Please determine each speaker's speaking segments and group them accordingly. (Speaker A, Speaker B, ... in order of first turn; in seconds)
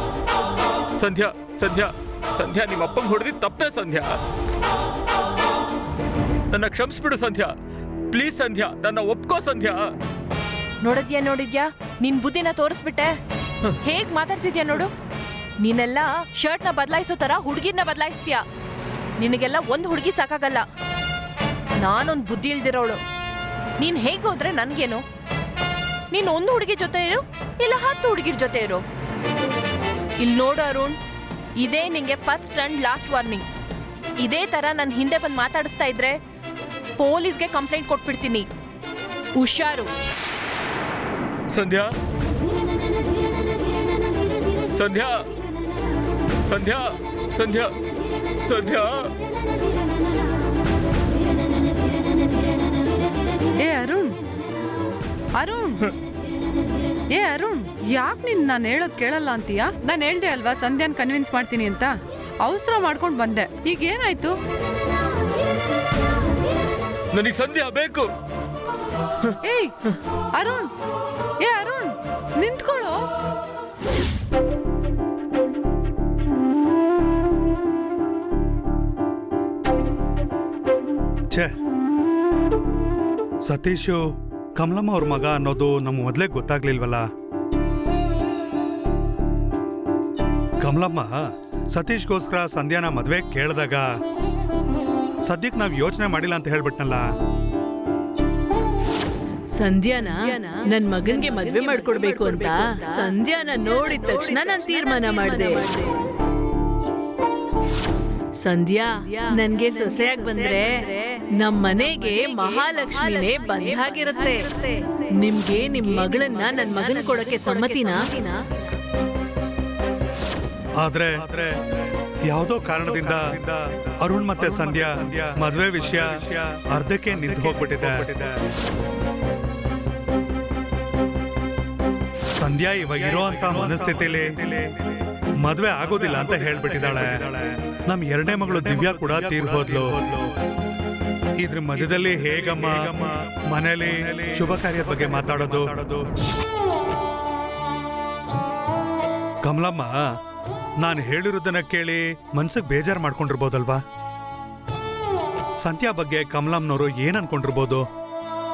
Speaker A: 1.0-4.2, 6.5-7.5, 8.1-9.9, 41.5-41.9, 44.7-45.3, 46.5-47.8, 48.4-49.1, 67.1-68.1
Speaker B: 10.8-13.2, 13.8-14.9, 15.6-18.4, 19.2-20.6, 21.8-23.0, 23.8-25.0, 26.1-28.8, 30.2-31.0, 31.6-33.5, 34.2-36.2, 37.0-38.5, 39.4-39.9
Speaker C: 53.5-54.2, 55.4-55.9, 57.1-64.4, 69.4-69.7, 70.3-70.7, 71.4-73.0
Speaker D: 83.5-84.0, 84.6-87.1, 90.6-91.2, 91.7-93.9, 95.3-97.1, 120.8-121.6, 122.3-128.3, 132.3-134.5, 135.4-137.3, 137.9-140.1, 141.4-145.9, 149.4-150.0, 150.8-153.8, 155.6-157.8
Speaker E: 99.5-105.8, 108.4-118.1